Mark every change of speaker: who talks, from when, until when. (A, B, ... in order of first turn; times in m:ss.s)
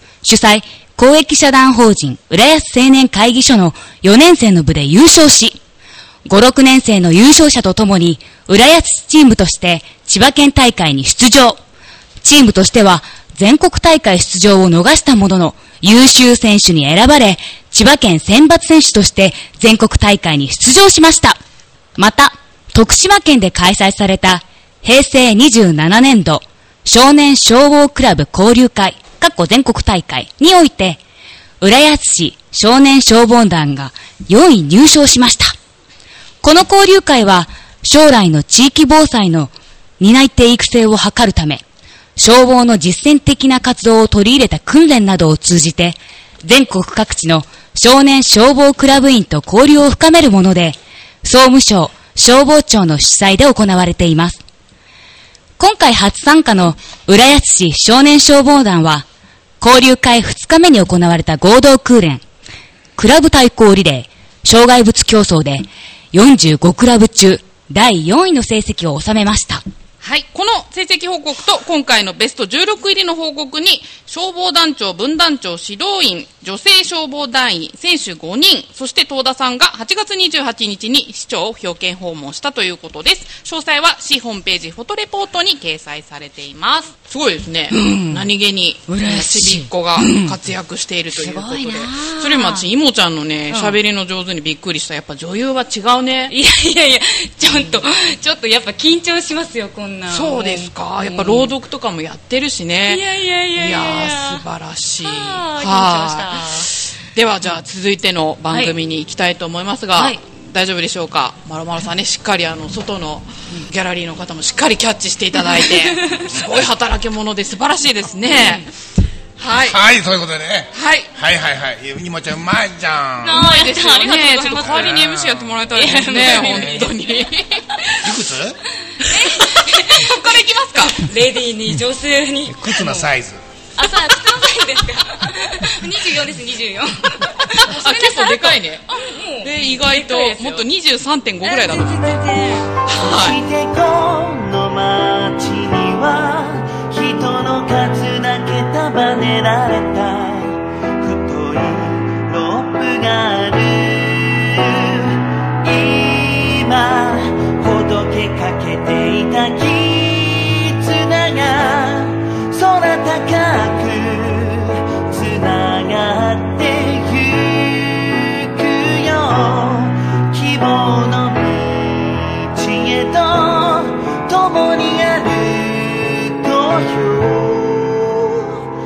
0:00.2-0:05.6 A
0:06.2-0:11.6 A
0:12.2-0:21.4 A
0:22.0-0:31.0 A
0:31.6-0:35.5 A
0:36.4-0:41.6 A
0:42.2-0:54.4 A
0:55.6-0:59.0 A
0:59.6-1:02.2 A
1:03.0-1:09.6 A
1:10.0-1:36.3 B
1:27.7-1:28.3 C
1:28.9-1:30.4 C
1:31.1-1:32.7 C
1:33.5-1:33.8 C
1:36.3-1:41.5 C
1:37.5-1:37.8 B
1:40.1-1:58.7 B
1:42.9-1:44.4 C
1:45.0-1:46.7 C
1:49.9-1:50.2 C
1:55.4-1:56.3 C
1:58.3-1:58.6 C
1:59.4-1:59.8 B
1:59.6-2:03.5 D
2:00.7-2:01.1 B
2:03.2-2:05.0 C
2:03.3-2:08.2 B
2:04.6-2:05.6 D
2:05.7-2:06.9 C
2:06.4-2:06.8 D
2:08.0-2:08.6 D
2:08.9-2:13.1 C
2:09.1-2:11.1 B
2:12.5-2:13.4 D
2:13.8-2:20.7 C
2:17.6-2:22.1 B
2:21.4-2:22.7 C
2:22.9-2:23.4 B
2:22.9-2:58.6 E